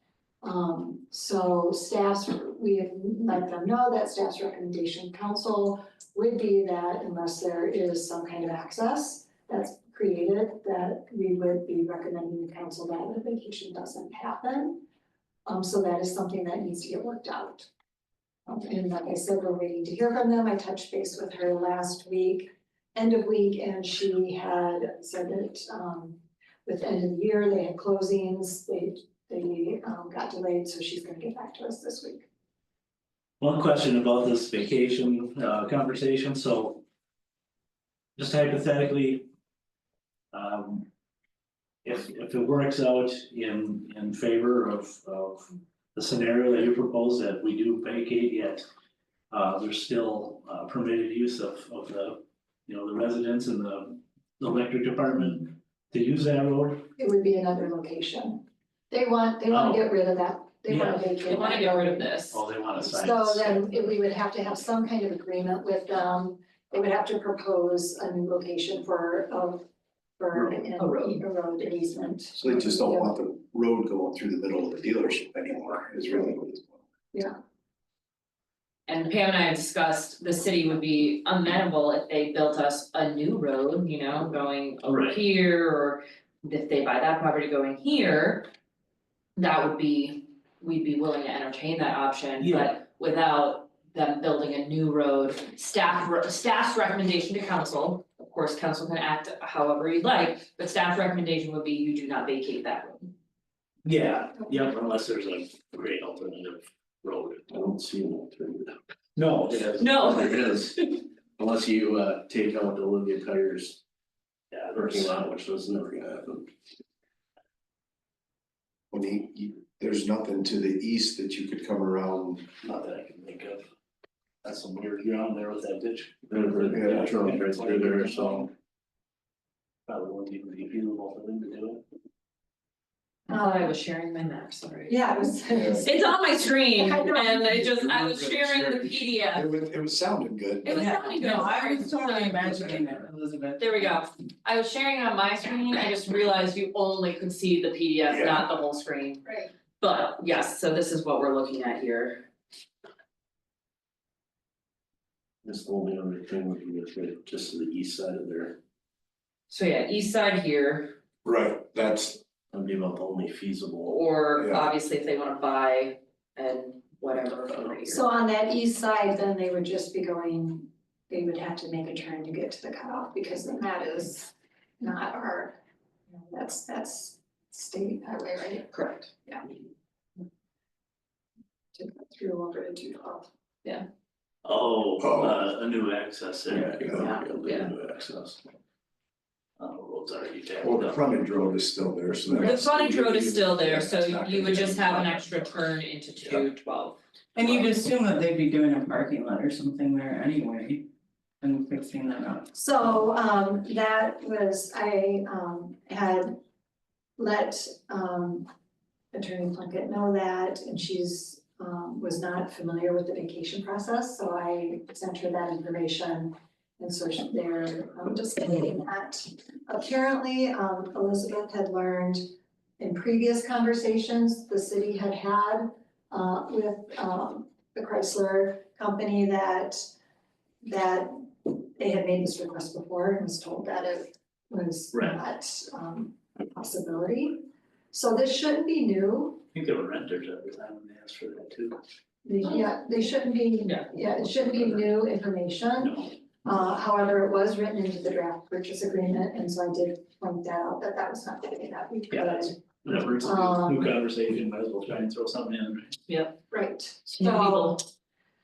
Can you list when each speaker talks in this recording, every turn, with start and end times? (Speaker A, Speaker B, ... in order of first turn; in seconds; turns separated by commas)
Speaker A: 0.4-14.8, Speaker A: 15.5-17.7, Speaker A: 18.4-32.3, Speaker B: 33.4-36.8, Speaker B: 38.2-39.3, Speaker B: 40.3-40.9, Speaker B: 41.8-48.7, Speaker B: 49.3-56.9, Speaker A: 57.0-62.1, Speaker B: 59.5-59.8, Speaker B: 60.7-61.0, Speaker C: 61.2-62.4, Speaker B: 62.3-63.8, Speaker A: 62.8-69.6, Speaker A: 70.2-73.1, Speaker B: 70.3-70.6, Speaker C: 70.8-71.2, Speaker D: 72.4-76.8, Speaker C: 78.9-88.5, Speaker B: 84.9-85.2, Speaker C: 89.4-103.1, Speaker B: 92.4-92.7, Speaker B: 103.8-107.5, Speaker E: 107.5-108.7, Speaker B: 109.2-110.0, Speaker C: 109.8-111.0, Speaker E: 110.0-110.8, Speaker E: 111.4-113.8, Speaker B: 114.5-115.2, Speaker E: 114.7-116.5, Speaker D: 118.9-122.5, Speaker B: 122.6-123.6, Speaker B: 124.4-128.5, Speaker E: 126.3-128.5, Speaker D: 126.7-127.1, Speaker B: 129.9-131.8, Speaker A: 133.3-133.6, Speaker C: 133.3-135.1, Speaker A: 134.9-137.7, Speaker D: 135.5-135.8, Speaker C: 135.8-139.5, Speaker D: 137.8-140.8, Speaker C: 140.6-142.8, Speaker F: 140.8-143.9, Speaker C: 143.6-149.2, Speaker D: 148.1-148.4, Speaker C: 149.8-152.3, Speaker E: 155.4-158.6, Speaker C: 159.5-160.9, Speaker D: 161.2-162.2, Speaker E: 162.5-164.0, Speaker C: 163.9-168.0, Speaker D: 164.4-164.7, Speaker A: 167.9-175.6, Speaker A: 176.3-179.4, Speaker C: 178.8-179.1, Speaker A: 181.8-183.3, Speaker B: 184.4-186.9, Speaker D: 185.0-185.3, Speaker E: 186.6-188.1, Speaker B: 187.5-188.4, Speaker B: 189.6-191.0, Speaker D: 190.6-195.5, Speaker C: 192.4-197.0, Speaker F: 197.3-200.9, Speaker F: 201.4-202.5, Speaker A: 202.5-206.4, Speaker A: 207.2-208.5, Speaker A: 209.1-229.9, Speaker A: 230.6-239.4, Speaker B: 234.9-235.2, Speaker B: 239.5-241.8, Speaker A: 242.2-252.6, Speaker B: 245.8-246.1, Speaker B: 252.1-256.0, Speaker A: 253.2-253.9, Speaker C: 256.1-256.4, Speaker A: 256.5-257.8, Speaker C: 257.1-257.8